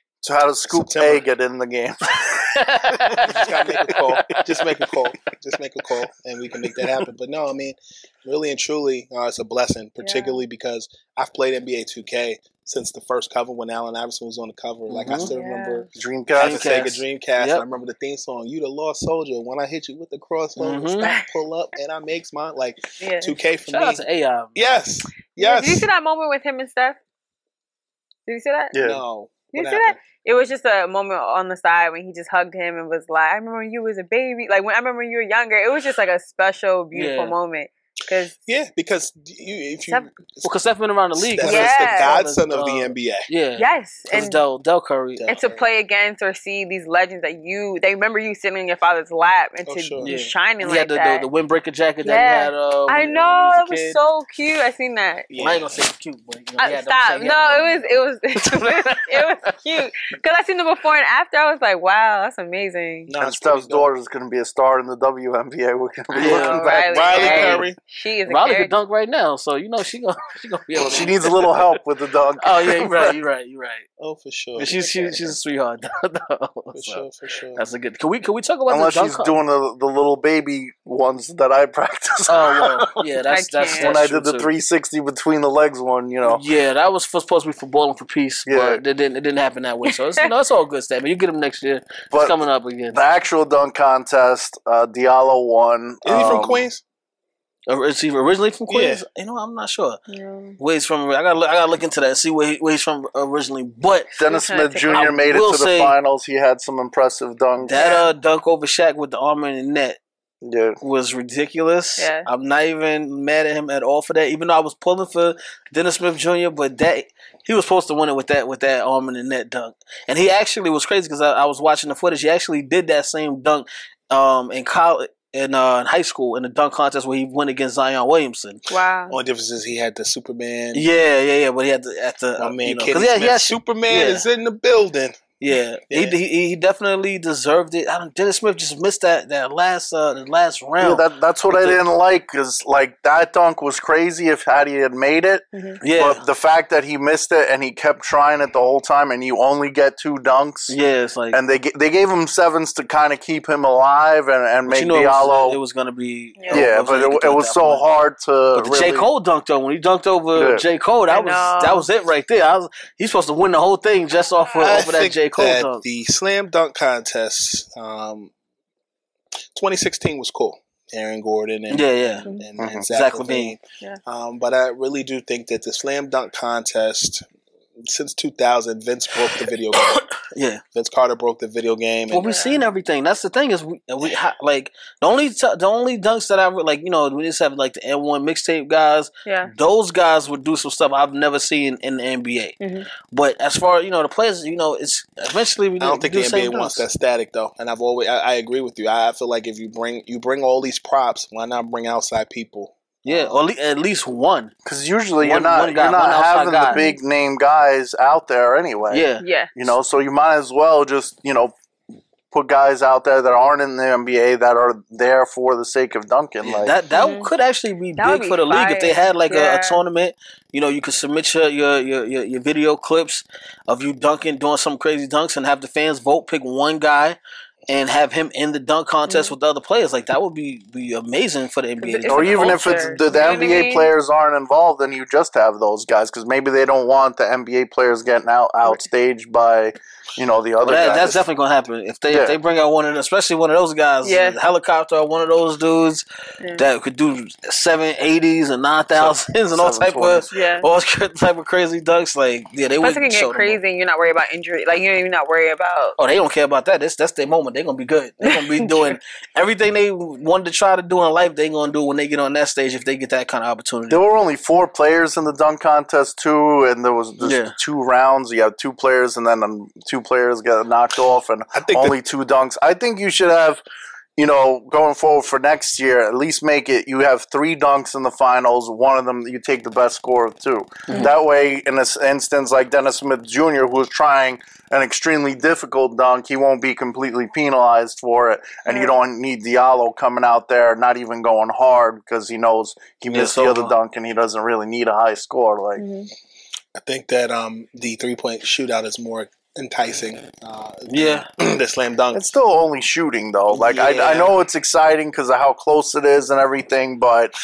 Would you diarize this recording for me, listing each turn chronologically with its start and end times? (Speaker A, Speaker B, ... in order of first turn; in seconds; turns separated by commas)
Speaker A: 0.2-2.6, Speaker B: 0.7-1.3, Speaker C: 2.2-4.9, Speaker B: 3.2-24.0, Speaker D: 10.0-10.4, Speaker C: 14.9-15.3, Speaker D: 15.3-15.9, Speaker A: 15.9-17.0, Speaker C: 16.4-17.6, Speaker C: 20.6-21.1, Speaker D: 21.0-21.3, Speaker D: 23.0-23.4, Speaker C: 23.7-24.8, Speaker B: 24.6-25.9, Speaker D: 25.4-27.0, Speaker D: 28.3-28.8, Speaker A: 28.7-29.0, Speaker B: 28.8-30.0, Speaker D: 29.5-38.3, Speaker C: 36.9-37.4, Speaker B: 38.5-40.5, Speaker C: 40.4-45.3, Speaker B: 41.2-43.3, Speaker D: 41.4-42.1, Speaker D: 43.6-44.4, Speaker B: 45.2-45.6, Speaker D: 45.3-51.3, Speaker B: 49.6-50.1, Speaker C: 50.0-54.0, Speaker D: 52.0-55.3, Speaker B: 55.3-55.7, Speaker C: 55.4-59.6, Speaker D: 56.6-63.1, Speaker B: 63.1-63.9, Speaker A: 63.2-67.6, Speaker C: 66.1-67.7, Speaker D: 66.2-68.7, Speaker B: 66.8-67.8, Speaker C: 68.3-71.7, Speaker A: 70.8-73.2, Speaker C: 72.4-73.9, Speaker B: 74.0-74.9, Speaker C: 74.6-77.0, Speaker D: 74.8-75.1, Speaker B: 76.8-77.6, Speaker C: 77.5-79.4, Speaker A: 78.7-83.0, Speaker C: 82.3-84.5, Speaker D: 83.3-84.0, Speaker A: 83.6-86.4, Speaker C: 86.3-93.0, Speaker A: 88.5-88.8, Speaker A: 92.9-96.7, Speaker B: 96.0-96.8, Speaker C: 97.7-100.0, Speaker B: 98.7-99.0, Speaker D: 100.1-100.6, Speaker C: 100.6-104.2, Speaker A: 104.2-107.9, Speaker D: 104.3-105.1, Speaker C: 104.9-106.0, Speaker C: 107.6-110.0, Speaker D: 107.8-108.1, Speaker A: 110.4-110.8, Speaker C: 110.8-128.6, Speaker D: 112.0-112.3, Speaker D: 128.7-129.2, Speaker B: 129.1-130.8, Speaker C: 130.7-134.2, Speaker B: 132.4-135.2, Speaker C: 135.4-141.8, Speaker B: 135.9-136.2, Speaker A: 140.8-150.8, Speaker D: 145.5-145.8, Speaker C: 145.8-146.2, Speaker C: 150.7-151.4, Speaker A: 151.3-155.6, Speaker C: 154.7-157.9, Speaker D: 156.4-156.7, Speaker A: 156.5-159.1, Speaker C: 158.5-165.8, Speaker A: 160.3-160.6, Speaker D: 161.1-161.9, Speaker B: 164.6-168.3, Speaker B: 169.6-177.2, Speaker C: 171.7-172.3, Speaker A: 172.6-172.9, Speaker C: 172.9-173.6, Speaker B: 177.9-180.0, Speaker C: 179.8-180.6, Speaker B: 180.8-182.3, Speaker C: 182.1-192.6, Speaker D: 182.2-182.7, Speaker D: 189.2-189.5, Speaker D: 192.6-192.9, Speaker C: 193.1-196.8, Speaker B: 195.8-203.4, Speaker C: 203.1-204.5, Speaker A: 204.7-211.5, Speaker C: 205.2-206.8, Speaker D: 206.7-207.0, Speaker C: 208.9-209.2, Speaker D: 209.2-209.5, Speaker A: 212.3-216.7, Speaker C: 216.4-227.2, Speaker D: 217.0-217.3, Speaker D: 218.0-219.8, Speaker C: 227.7-232.6, Speaker D: 229.1-229.3, Speaker D: 231.8-233.9, Speaker A: 232.1-241.2, Speaker C: 240.7-246.1, Speaker A: 242.1-242.4, Speaker D: 244.0-244.4, Speaker D: 246.4-246.7, Speaker C: 246.6-253.6, Speaker A: 248.9-250.3, Speaker D: 250.3-250.7, Speaker D: 252.8-256.0, Speaker C: 256.0-264.0, Speaker A: 263.9-273.6, Speaker C: 267.2-267.6, Speaker B: 271.6-272.0, Speaker A: 274.2-295.9, Speaker D: 288.7-288.9, Speaker C: 293.1-293.8, Speaker D: 295.8-296.1, Speaker B: 296.8-302.2, Speaker C: 300.9-301.3, Speaker A: 302.1-307.4, Speaker C: 303.5-304.3